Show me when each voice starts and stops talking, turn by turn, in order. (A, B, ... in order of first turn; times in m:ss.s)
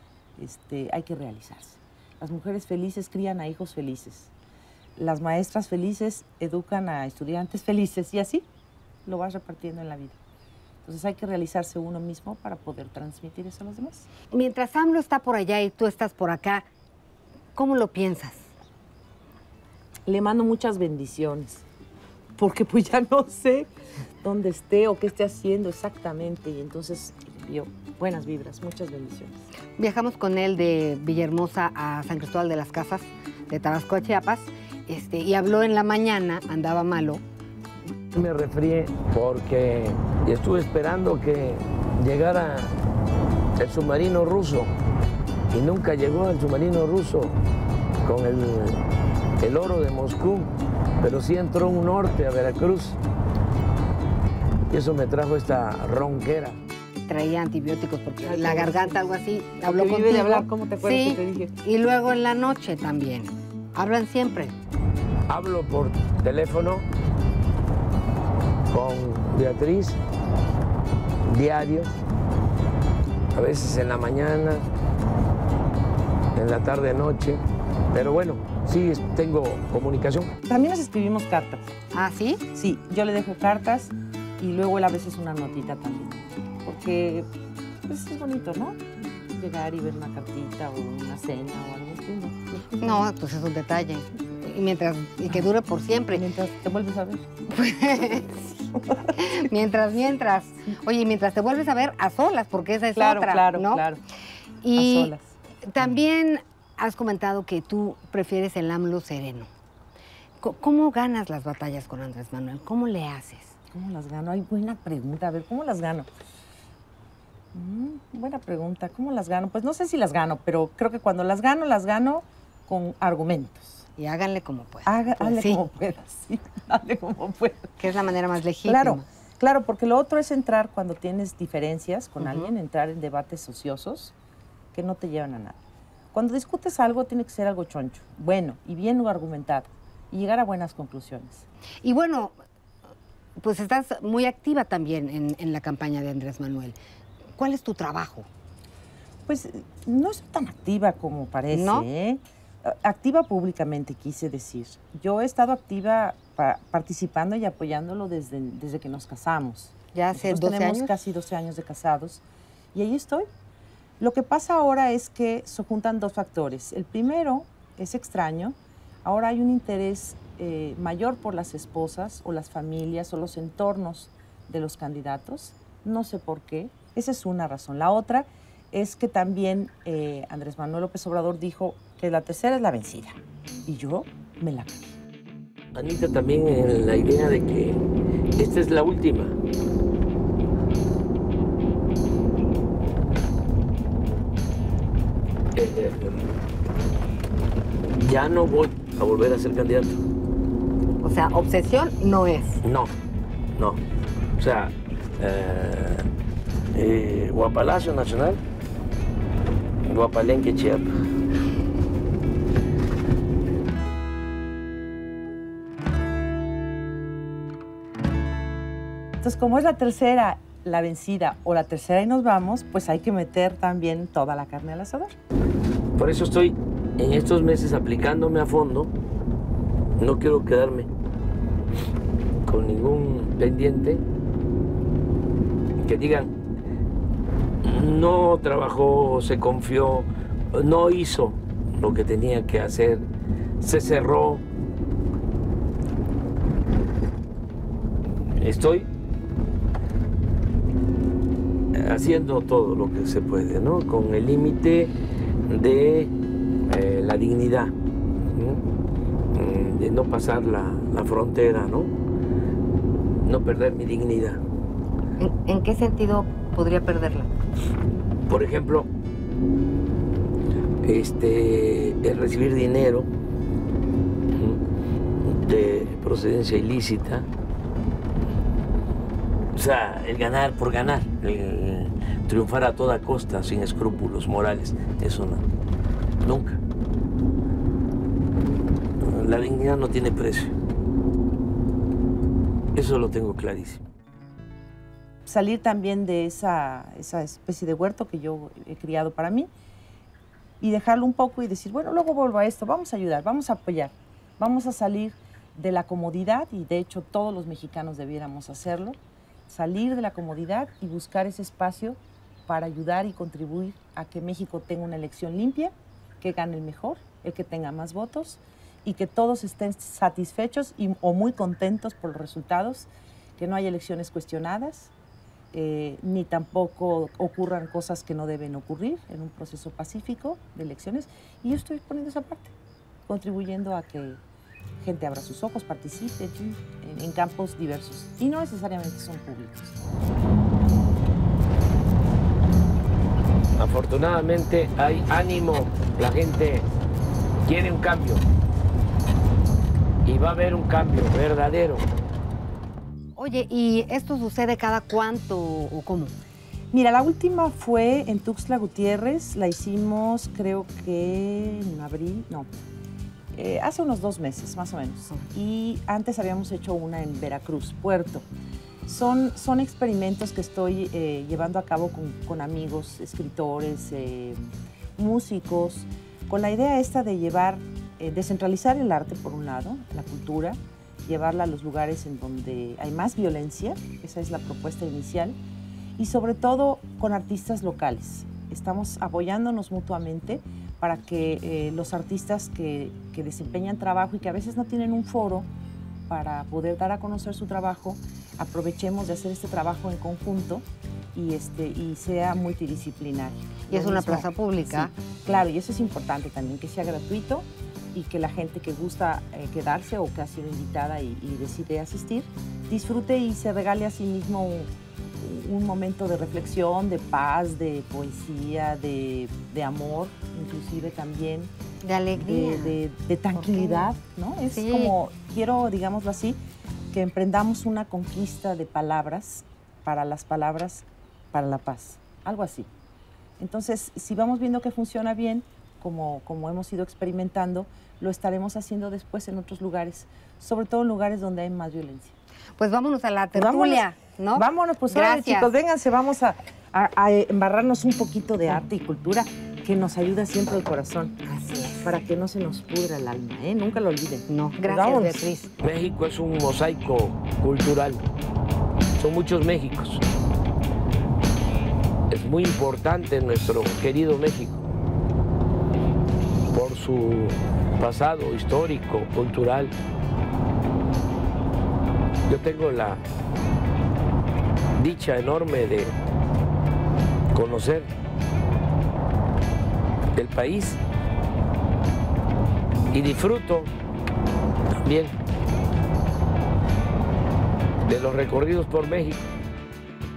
0:00.4-0:04.3 A
0:05.0-0:08.4 A
0:09.0-0:10.2 A
0:10.8-0:14.1 A
0:14.3-0:16.7 B
0:17.6-0:18.5 B
0:20.1-0:21.6 A
0:22.4-0:23.7 A
0:24.2-0:29.4 A
0:29.8-0:37.2 B
0:38.1-0:42.7 C
0:43.6-0:44.7 C
0:45.5-0:47.4 C
0:48.0-0:48.8 C
0:49.4-0:53.0 C
0:54.7-0:56.6 C
0:57.1-1:04.6 B
0:58.2-1:01.6 A
1:05.3-1:06.8 C
1:08.7-1:10.0 C
1:11.2-1:11.9 C
1:13.3-1:14.7 C
1:16.3-1:17.4 C
1:17.9-1:20.4 C
1:20.4-1:21.6 A
1:21.9-1:22.4 B
1:22.5-1:27.3 A
1:27.9-1:33.1 A
1:32.8-1:36.2 B
1:36.1-1:37.2 A
1:37.5-1:38.3 B
1:38.6-1:39.4 A
1:39.1-1:43.8 B
1:42.9-1:44.0 A
1:44.6-1:45.1 B
1:44.8-1:45.9 A
1:45.6-1:49.5 B
1:50.4-1:53.5 B
1:53.7-1:56.1 A
1:57.5-2:03.8 A
2:04.0-2:05.6 B
2:04.8-2:07.8 A
2:07.8-2:09.1 B
2:08.7-2:14.1 A
2:12.2-2:12.5 B
2:14.7-2:15.6 A
2:16.1-2:21.4 A
2:21.8-2:22.4 B
2:23.4-2:26.8 B
2:27.4-2:28.3 B
2:29.3-2:42.2 A
2:31.5-2:31.9 B
2:39.9-2:40.9 B
2:42.7-2:43.3 A
2:44.0-3:05.0 A
3:05.7-3:07.8 C
3:08.4-3:09.3 C
3:15.6-3:16.3 C
3:18.0-3:20.0 C
3:21.0-3:22.6 B
3:22.6-3:22.9 C
3:24.4-3:26.1 C
3:26.7-3:28.4 C
3:29.8-3:30.9 C
3:39.2-3:45.2 A
3:46.0-3:48.9 C
3:50.0-3:50.9 C
3:52.4-3:54.0 C
3:55.8-3:56.3 C
3:57.6-4:03.1 C
4:03.6-4:04.4 C
4:08.4-4:08.9 C
4:11.7-4:14.9 C
4:15.5-4:16.1 C
4:16.7-4:18.6 C
4:19.3-4:21.9 C
4:23.2-4:24.4 C
4:25.2-4:27.3 B
4:28.3-4:28.9 C
4:30.8-4:33.1 C
4:34.3-4:34.6 C
4:35.2-4:37.3 C
4:39.5-4:45.4 C
4:46.2-4:46.6 C
4:49.0-4:50.5 C
4:52.7-4:53.8 C
4:55.2-4:59.5 A
5:00.6-5:09.0 A
5:09.5-5:24.9 A
5:25.5-5:32.6 A
5:33.1-5:34.2 A
5:34.8-5:39.8 A
5:43.6-5:46.7 C
5:47.4-5:48.2 C
5:50.0-5:51.9 C
5:53.2-5:56.1 B
5:56.7-6:02.5 A
6:03.3-6:08.3 A
6:08.8-6:25.4 A
6:26.0-6:35.5 A
6:36.1-7:01.5 A
6:43.7-6:44.9 B
7:01.8-7:02.8 B
7:02.1-7:06.4 A
7:03.4-7:03.9 B
7:04.5-7:04.9 B
7:06.9-7:12.7 A
7:13.4-7:22.2 A
7:22.6-7:25.5 B
7:23.3-7:31.2 A
7:31.2-7:31.9 B
7:31.8-7:35.2 A
7:34.3-7:35.5 B
7:35.6-7:38.0 C
7:39.0-7:40.0 C
7:42.1-7:44.6 C
7:46.5-7:49.7 C
7:52.3-7:53.0 C
7:54.8-7:55.9 C
7:57.3-7:57.9 C
8:00.2-8:00.8 C
8:02.9-8:03.7 C
8:04.8-8:05.1 C
8:07.9-8:09.2 C